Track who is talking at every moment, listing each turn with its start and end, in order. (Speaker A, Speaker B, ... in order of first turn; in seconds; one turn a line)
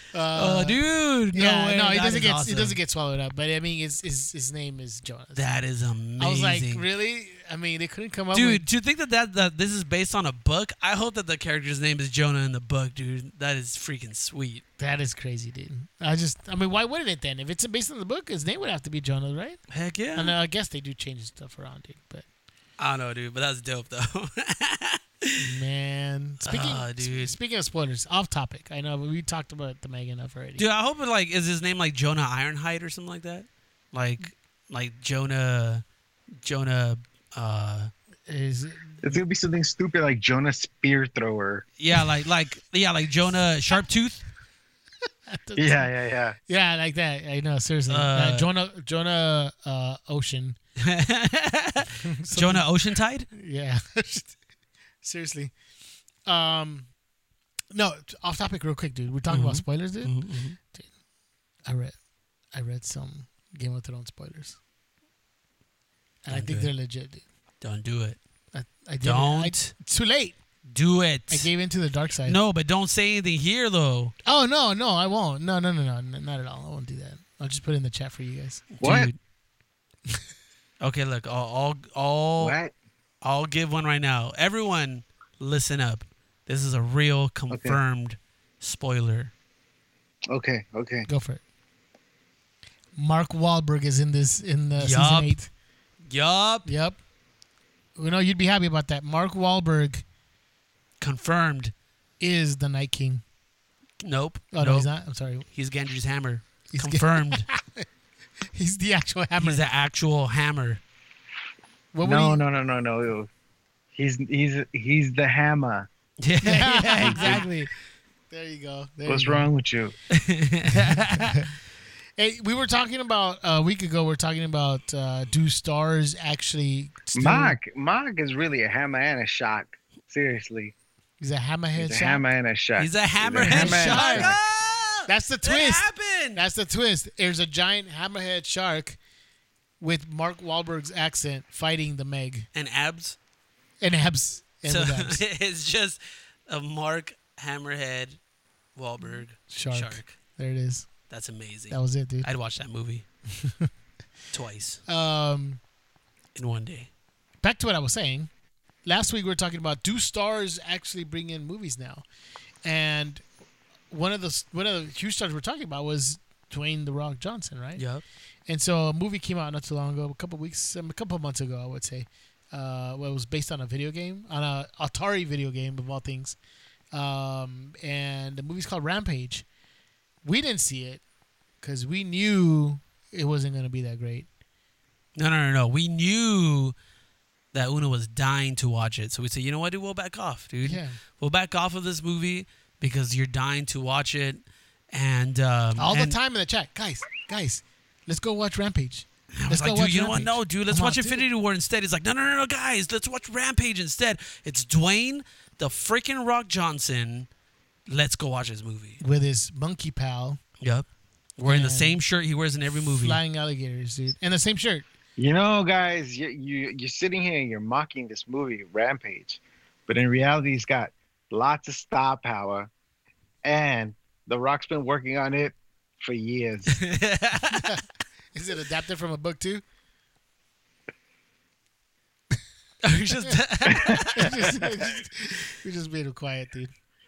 Speaker A: 0.1-0.8
Speaker B: 0.3-2.8
Speaker A: 1.3-5.4
Speaker B: 5.4-6.8
Speaker A: 6.2-8.7
Speaker B: 8.3-14.6
Speaker A: 14.8-19.6
Speaker B: 19.7-20.4
Speaker A: 20.1-22.2
Speaker B: 22.8-25.6
Speaker A: 25.4-30.6
Speaker B: 26.4-27.4
Speaker B: 30.6-35.8
Speaker B: 36.4-37.9
Speaker A: 38.3-39.2
Speaker C: 39.0-41.6
Speaker B: 41.8-44.2
Speaker A: 45.3-45.9
Speaker C: 45.5-46.4
Speaker A: 46.5-50.6
Speaker B: 47.9-48.5
Speaker B: 50.8-53.3
Speaker A: 52.0-52.7
Speaker A: 53.3-54.4
Speaker A: 55.0-55.5
Speaker A: 56.2-56.9
Speaker A: 57.7-60.9
Speaker B: 59.3-60.6
Speaker A: 61.6-62.0
Speaker A: 62.5-64.6
Speaker A: 66.2-67.2
Speaker B: 66.3-66.7
Speaker B: 67.6-68.2
Speaker A: 68.5-70.4
Speaker B: 69.0-69.7
Speaker B: 70.7-71.5
Speaker A: 71.3-72.4
Speaker B: 72.3-74.1
Speaker A: 74.3-78.7
Speaker B: 78.7-79.2
Speaker C: 78.8-79.1
Speaker B: 80.8-82.6
Speaker C: 82.4-82.7
Speaker B: 83.2-89.3
Speaker C: 87.5-87.8
Speaker C: 90.3-91.1
Speaker A: 91.1-91.4
Speaker A: 93.0-95.5
Speaker B: 94.8-95.4
Speaker B: 96.1-96.7
Speaker A: 96.7-97.0
Speaker A: 98.0-100.0
Speaker B: 101.0-101.7
Speaker A: 102.2-103.2
Speaker B: 104.0-104.9
Speaker A: 104.5-105.4
Speaker B: 105.5-107.5
Speaker A: 106.7-107.9
Speaker A: 108.4-109.6
Speaker B: 109.4-110.8
Speaker A: 111.9-112.4
Speaker C: 112.0-113.3
Speaker C: 114.0-115.9
Speaker B: 116.2-117.5
Speaker A: 116.4-117.7
Speaker C: 117.1-117.4
Speaker A: 118.3-119.5
Speaker C: 119.1-119.9
Speaker B: 120.1-121.5
Speaker A: 120.7-121.5
Speaker A: 122.2-127.6
Speaker C: 127.1-130.7
Speaker A: 131.2-132.2
Speaker C: 131.8-134.3
Speaker B: 132.8-136.4
Speaker A: 133.4-134.4
Speaker A: 135.1-139.0
Speaker A: 139.8-142.5
Speaker B: 142.6-143.2
Speaker A: 143.8-145.2
Speaker B: 144.7-148.2
Speaker B: 148.8-150.1
Speaker A: 149.1-150.9
Speaker B: 151.1-153.1
Speaker A: 151.7-152.3
Speaker A: 153.3-153.7
Speaker B: 154.3-154.8
Speaker A: 154.9-155.6
Speaker B: 156.3-156.9
Speaker A: 157.4-158.3
Speaker A: 158.8-162.1
Speaker A: 162.6-163.2
Speaker A: 163.9-167.8
Speaker B: 167.8-168.0
Speaker A: 168.5-176.4
Speaker A: 176.9-179.4
Speaker A: 180.2-181.0
Speaker A: 181.6-184.3
Speaker B: 185.2-186.7
Speaker B: 187.5-196.2
Speaker A: 190.6-191.0
Speaker A: 195.8-201.2
Speaker B: 199.4-207.3
Speaker B: 207.9-209.0
Speaker A: 209.0-210.4
Speaker B: 210.6-210.9
Speaker B: 211.4-213.2
Speaker A: 211.4-212.0
Speaker A: 213.0-214.8
Speaker C: 215.2-222.7
Speaker C: 223.4-226.8
Speaker B: 226.8-227.7
Speaker A: 227.5-227.8
Speaker A: 228.3-229.6
Speaker B: 232.8-234.5
Speaker C: 233.7-234.1
Speaker A: 233.9-236.7